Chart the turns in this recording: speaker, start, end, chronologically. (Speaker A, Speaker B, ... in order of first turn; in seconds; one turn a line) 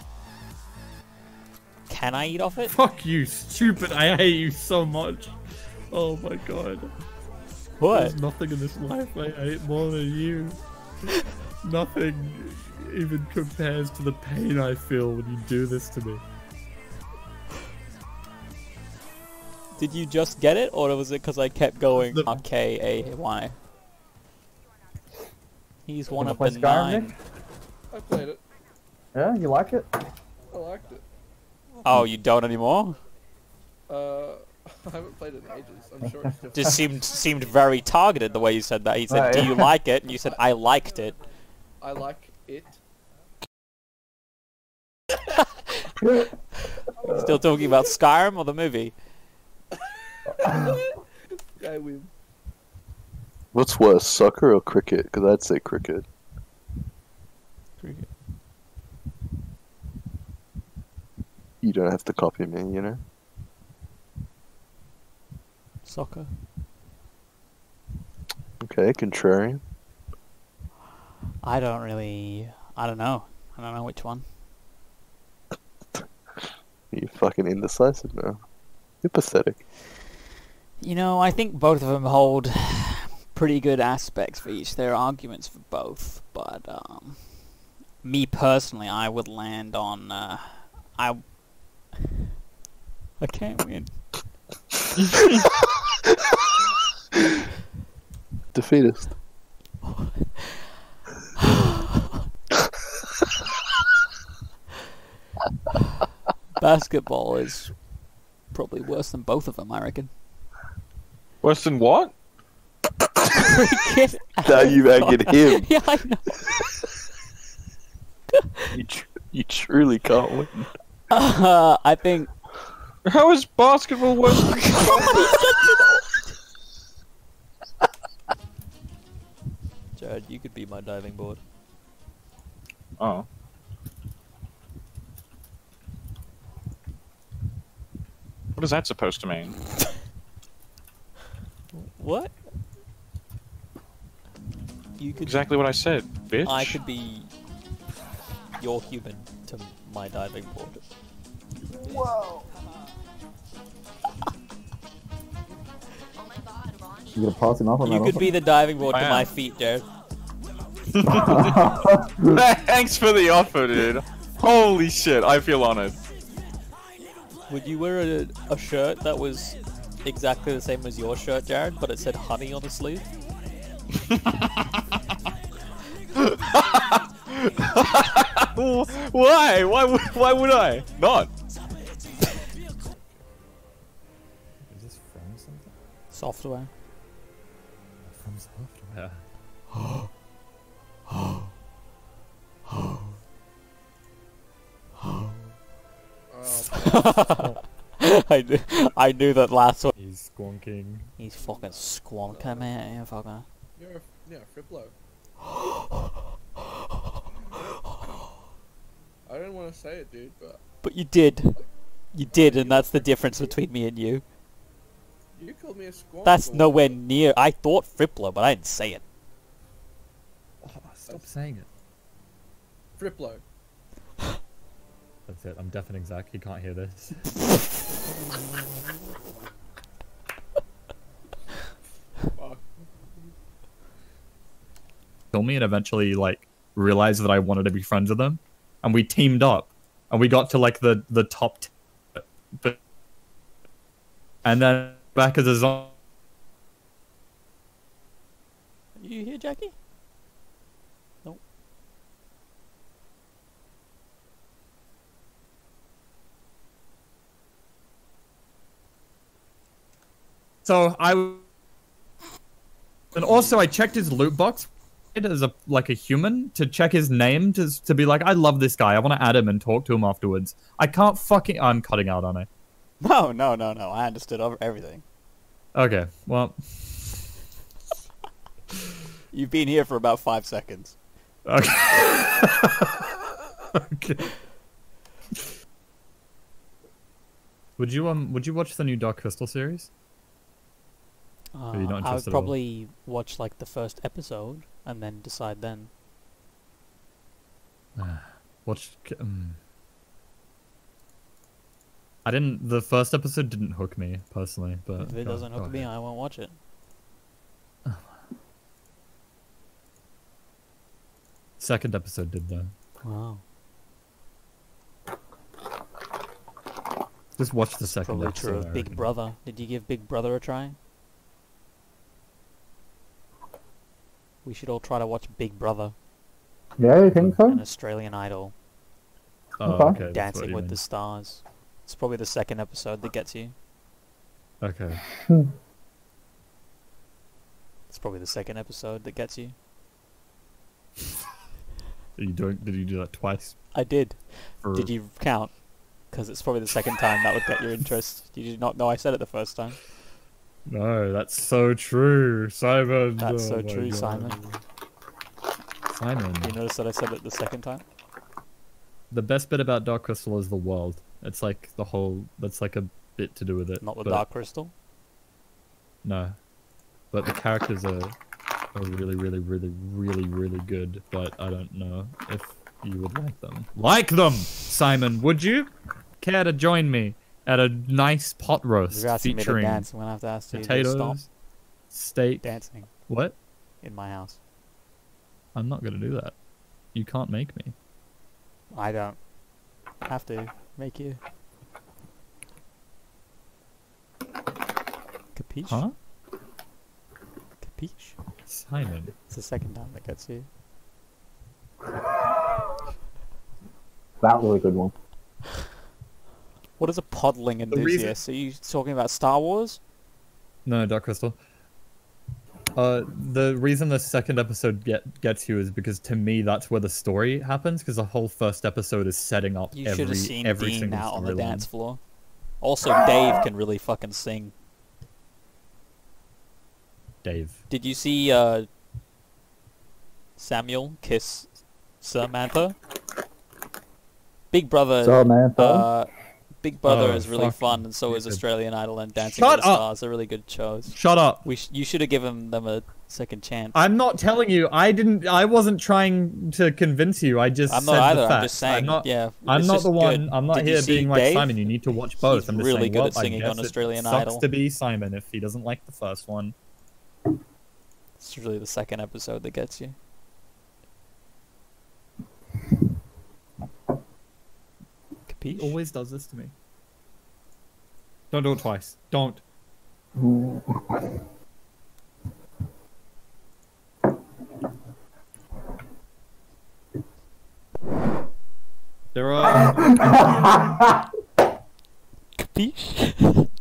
Speaker A: 1.9-2.7
Speaker B: 2.7-5.3
Speaker B: 5.9-6.9
Speaker A: 7.8-8.2
Speaker B: 7.9-10.6
Speaker B: 11.6-16.2
Speaker A: 19.8-23.6
Speaker A: 25.9-27.1
Speaker C: 26.2-27.0
Speaker D: 27.9-28.4
Speaker C: 29.1-29.9
Speaker D: 30.5-31.0
Speaker A: 31.8-33.0
Speaker D: 33.9-36.9
Speaker A: 36.5-41.2
Speaker C: 39.1-39.7
Speaker D: 40.1-40.4
Speaker D: 41.8-42.8
Speaker A: 47.0-48.9
Speaker D: 50.4-50.8
Speaker D: 51.6-52.1
Speaker E: 53.5-56.1
Speaker A: 57.8-58.1
Speaker E: 61.6-63.0
Speaker A: 65.8-66.3
Speaker E: 68.6-69.6
Speaker A: 71.4-74.2
Speaker E: 76.9-78.4
Speaker E: 79.0-79.6
Speaker A: 80.8-91.4
Speaker A: 93.2-94.3
Speaker E: 98.5-99.1
Speaker A: 99.8-100.5
Speaker A: 106.6-107.9
Speaker A: 108.5-110.1
Speaker F: 111.4-112.1
Speaker A: 113.4-116.5
Speaker E: 114.4-115.8
Speaker E: 118.7-120.7
Speaker A: 121.1-122.3
Speaker F: 123.0-125.4
Speaker A: 124.2-126.1
Speaker A: 129.9-131.4
Speaker F: 133.0-133.3
Speaker F: 138.6-139.6
Speaker A: 141.7-142.4
Speaker A: 145.0-145.6
Speaker F: 145.2-146.8
Speaker A: 146.4-147.3
Speaker A: 148.6-150.8
Speaker C: 157.1-158.3
Speaker A: 157.8-159.8
Speaker F: 158.9-159.3
Speaker F: 161.0-161.6
Speaker C: 161.0-162.4
Speaker F: 162.3-166.0
Speaker A: 167.5-173.1
Speaker F: 176.5-176.8
Speaker F: 177.5-181.3
Speaker B: 184.7-185.6
Speaker A: 186.1-186.7
Speaker B: 188.2-189.1
Speaker A: 189.7-190.1
Speaker A: 195.0-195.3
Speaker D: 196.3-197.4
Speaker A: 196.8-199.9
Speaker B: 199.9-201.1
Speaker A: 201.2-203.4
Speaker D: 201.3-202.8
Speaker D: 203.8-204.9
Speaker D: 209.3-210.6
Speaker A: 210.8-211.6
Speaker D: 211.5-213.6
Speaker A: 212.1-214.2
Speaker D: 215.3-217.0
Speaker A: 216.2-219.0
Speaker B: 220.6-221.7
Speaker D: 223.0-223.4
Speaker B: 225.3-227.1
Speaker D: 232.3-232.8
Speaker B: 235.3-242.8
Speaker B: 244.4-245.9
Speaker A: 249.0-249.7
Speaker B: 260.6-261.4
Speaker B: 263.1-272.5
Speaker A: 273.0-275.0
Speaker B: 275.7-277.2
Speaker A: 279.3-281.0
Speaker B: 281.4-282.5
Speaker B: 287.8-289.9
Speaker A: 291.5-295.9
Speaker B: 291.7-292.5
Speaker B: 298.0-299.6
Speaker B: 302.2-305.9
Speaker A: 305.0-306.6
Speaker B: 311.6-312.7
Speaker A: 313.0-313.4
Speaker B: 317.4-319.1
Speaker A: 317.8-320.8
Speaker A: 324.4-325.9
Speaker C: 326.8-327.6
Speaker A: 327.4-328.5
Speaker B: 329.6-330.8
Speaker C: 329.6-330.0
Speaker A: 329.9-333.5
Speaker B: 334.6-335.0
Speaker A: 337.9-339.5
Speaker B: 342.2-343.6
Speaker A: 343.7-349.8
Speaker B: 344.6-344.9
Speaker B: 350.7-354.4
Speaker A: 353.2-354.4
Speaker B: 355.9-356.5
Speaker A: 356.4-357.8
Speaker B: 359.1-364.2
Speaker A: 363.8-364.7
Speaker B: 366.0-366.4
Speaker B: 367.1-368.1
Speaker B: 368.7-375.7
Speaker B: 376.2-379.9
Speaker A: 378.9-381.2
Speaker B: 380.5-381.3
Speaker B: 381.9-382.5
Speaker A: 382.4-382.9
Speaker B: 383.1-383.4
Speaker A: 383.8-384.4
Speaker B: 385.5-386.4
Speaker B: 386.9-387.7
Speaker A: 388.7-389.2
Speaker A: 390.0-391.2
Speaker A: 395.3-395.9
Speaker B: 395.7-395.9
Speaker A: 397.6-398.2
Speaker B: 398.5-399.1
Speaker A: 399.3-400.5
Speaker C: 404.2-404.9
Speaker A: 406.8-409.8
Speaker B: 407.7-408.1
Speaker B: 410.6-411.4
Speaker B: 412.8-421.7
Speaker A: 419.7-422.0
Speaker A: 422.6-424.5
Speaker B: 427.2-427.6
Speaker A: 427.7-428.7
Speaker A: 430.4-432.8
Speaker A: 434.5-443.8
Speaker C: 435.0-435.9
Speaker B: 436.8-438.4
Speaker B: 439.2-439.9
Speaker B: 440.9-441.4
Speaker B: 443.7-456.5
Speaker A: 447.7-454.4
Speaker A: 458.2-459.9
Speaker A: 465.3-465.8
Speaker B: 465.5-466.5
Speaker B: 468.3-469.4
Speaker C: 470.2-470.6
Speaker B: 479.1-480.2
Speaker C: 480.4-480.9
Speaker A: 482.4-483.5